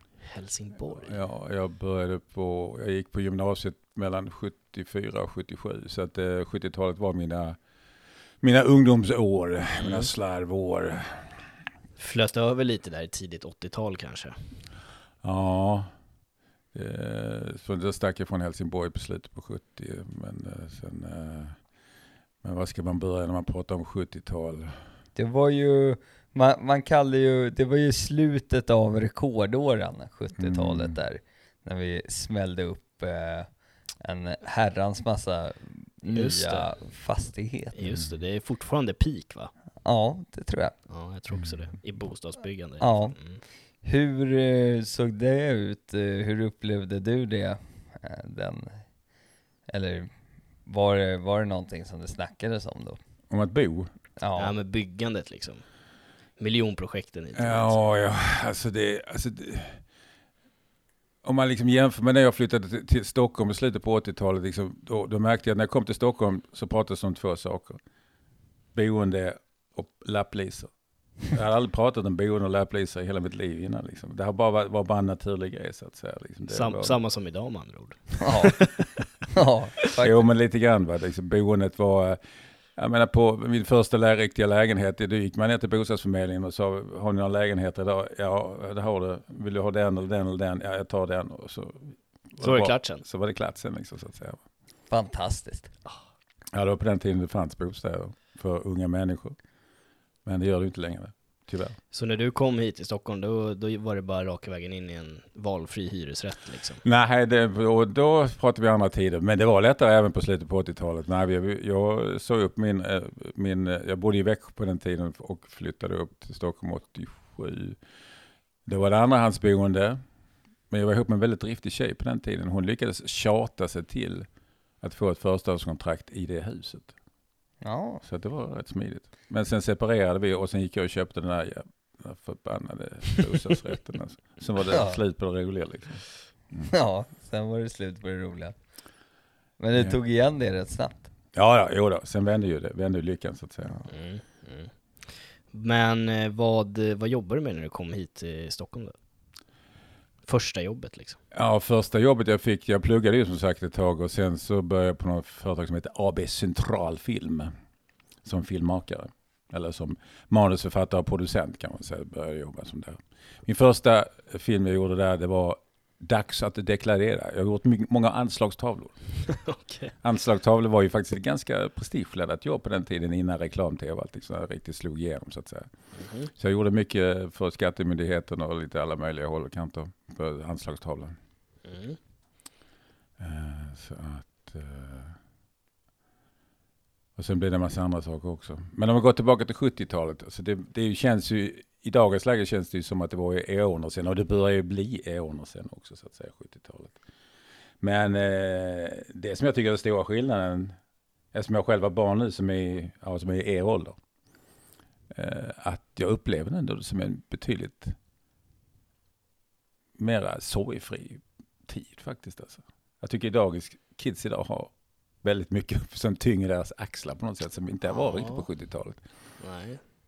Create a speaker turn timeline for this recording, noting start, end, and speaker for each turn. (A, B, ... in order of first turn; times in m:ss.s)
0:00.2-0:01.2 A
0:01.0-0:07.6 B
0:08.4-0:11.4 B
0:09.8-0:10.1 A
0:12.0-0:14.4 A
0:15.2-0:15.9 B
0:16.7-0:21.6 B
0:22.4-0:24.7 B
0:25.1-0:37.8 C
0:30.4-0:31.0 B
0:36.1-0:36.8 A
0:37.7-0:39.5 A
0:39.8-0:40.8 C
0:40.9-0:43.4 A
0:41.3-0:41.7 B
0:42.8-0:48.9 C
0:49.7-0:50.1 C
0:50.6-0:53.0 C
0:53.3-0:53.9 B
0:54.2-0:54.6 C
0:54.4-0:55.6 A
0:56.4-0:57.8 A
0:57.4-0:59.8 B
1:01.2-1:07.8 B
1:08.7-1:10.7 B
1:11.2-1:17.0 B
1:16.5-1:18.9 A
1:18.2-1:18.5 C
1:19.3-1:20.2 C
1:20.0-1:22.2 B
1:22.8-1:34.4 B
1:32.4-1:33.0 A
1:34.9-1:35.7 C
1:36.5-1:39.4 B
1:40.2-1:41.8 B
1:41.9-1:46.8 A
1:46.8-1:57.8 B
1:58.6-2:00.0 B
2:00.7-2:04.3 B
2:04.8-2:06.9 B
2:07.6-2:08.0 C
2:08.0-2:16.7 B
2:14.7-2:15.0 C
2:16.7-2:18.6 C
2:19.6-2:21.1 C
2:21.3-2:23.8 B
2:23.9-2:29.0 A
2:30.2-2:31.2 A
2:31.3-2:37.5 B
2:38.2-2:49.3 B
2:49.3-2:49.9 A
2:50.0-2:55.7 B
2:56.0-2:56.3 A
2:56.4-3:01.1 B
3:01.6-3:02.0 A
3:03.2-3:05.2 B
3:07.2-3:17.0 B
3:17.8-3:20.8 B
3:21.3-3:24.0 B
3:25.1-3:28.0 B
3:30.0-3:39.0 B
3:37.8-3:38.5 A
3:39.4-3:39.8 A